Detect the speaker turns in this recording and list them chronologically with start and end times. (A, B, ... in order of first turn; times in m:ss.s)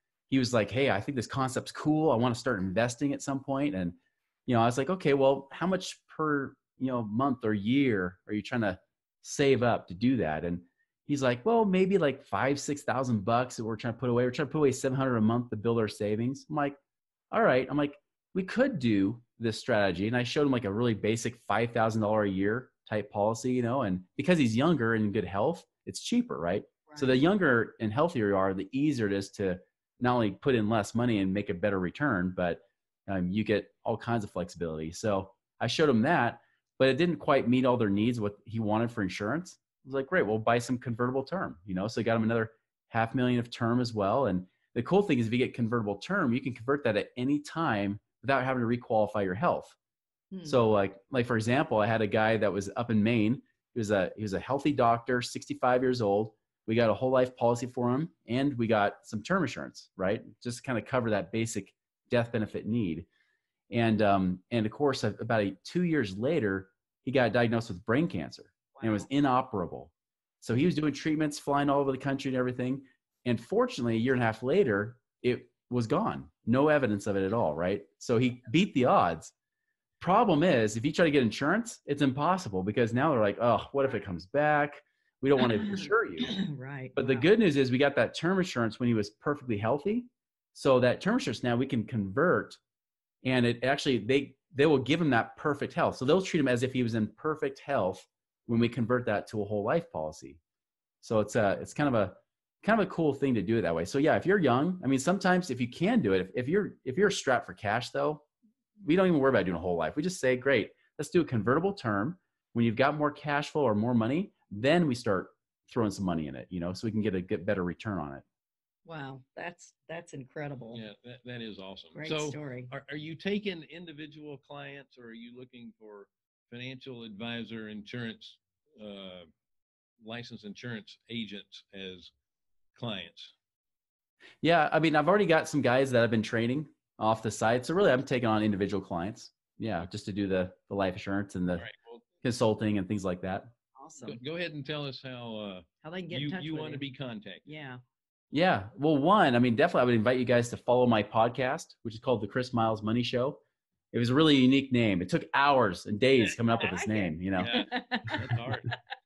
0:00.3-0:04.0 A
0:04.5-0:16.8 A
0:17.3-0:49.8 A
0:26.9-0:27.2 B
0:50.3-0:50.6 B
0:50.4-1:03.1 A
1:03.7-1:19.3 A
1:08.7-1:09.1 B
1:20.0-1:26.4 A
1:25.4-1:27.2 B
1:27.0-1:32.6 A
1:33.2-1:40.4 A
1:41.0-1:48.2 A
1:48.8-1:58.2 A
1:58.9-2:00.8 B
2:00.7-2:09.3 C
2:02.0-2:02.7 B
2:10.0-2:12.1 C
2:12.7-2:13.4 C
2:14.4-2:21.7 A
2:21.5-2:22.0 C
2:22.2-2:23.5 A
2:23.8-2:24.2 B
2:24.0-2:27.5 C
2:25.8-2:26.8 B
2:27.4-2:27.8 B
2:28.3-2:33.4 A
2:33.9-2:37.6 A
2:36.3-2:38.5 B
2:37.4-2:38.7 C